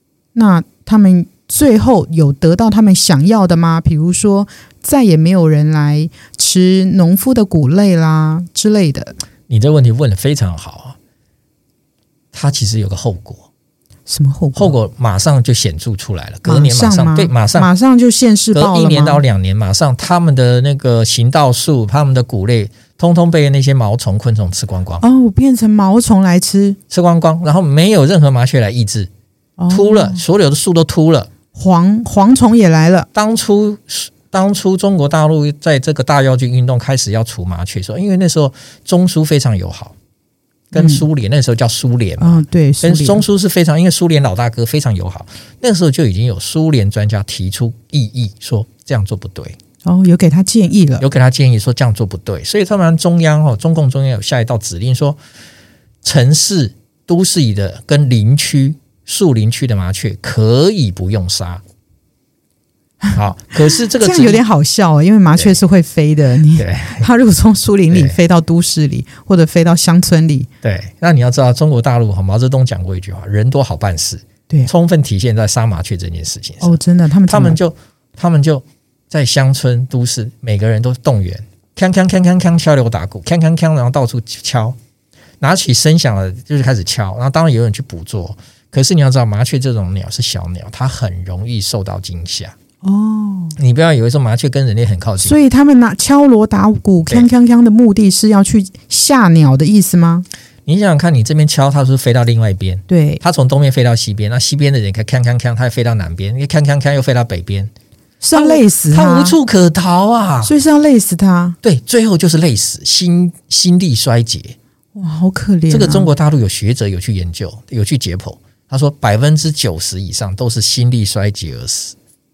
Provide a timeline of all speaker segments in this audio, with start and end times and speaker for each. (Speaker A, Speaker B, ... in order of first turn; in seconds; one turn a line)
Speaker A: 0.3-9.2
Speaker B: 9.5-11.0
Speaker B: 12.3-13.5
Speaker A: 14.1-14.8
Speaker B: 14.6-17.7
Speaker A: 16.4-19.2
Speaker B: 18.5-25.0
Speaker A: 25.0-26.8
Speaker B: 26.9-29.1
Speaker A: 29.6-30.2
Speaker B: 29.7-31.3
Speaker A: 31.5-33.1
Speaker B: 33.1-40.0
Speaker B: 40.7-49.6
Speaker A: 40.7-41.1
Speaker A: 42.2-43.2
Speaker A: 49.9-51.1
Speaker B: 51.0-55.2
Speaker B: 56.0-61.6
Speaker B: 63.1-64.4
Speaker A: 63.9-70.5
Speaker B: 66.5-67.1
Speaker B: 67.9-68.2
Speaker B: 70.6-84.8
Speaker A: 76.6-77.6
Speaker B: 85.4-92.5
Speaker A: 92.8-93.6
Speaker B: 93.5-95.4
Speaker A: 95.2-100.3
Speaker B: 100.7-107.7
Speaker A: 102.9-103.2
Speaker A: 108.2-109.4
Speaker B: 108.3-110.5
Speaker A: 110.4-111.6
Speaker B: 111.6-114.6
Speaker A: 115.0-116.1
Speaker B: 115.7-122.0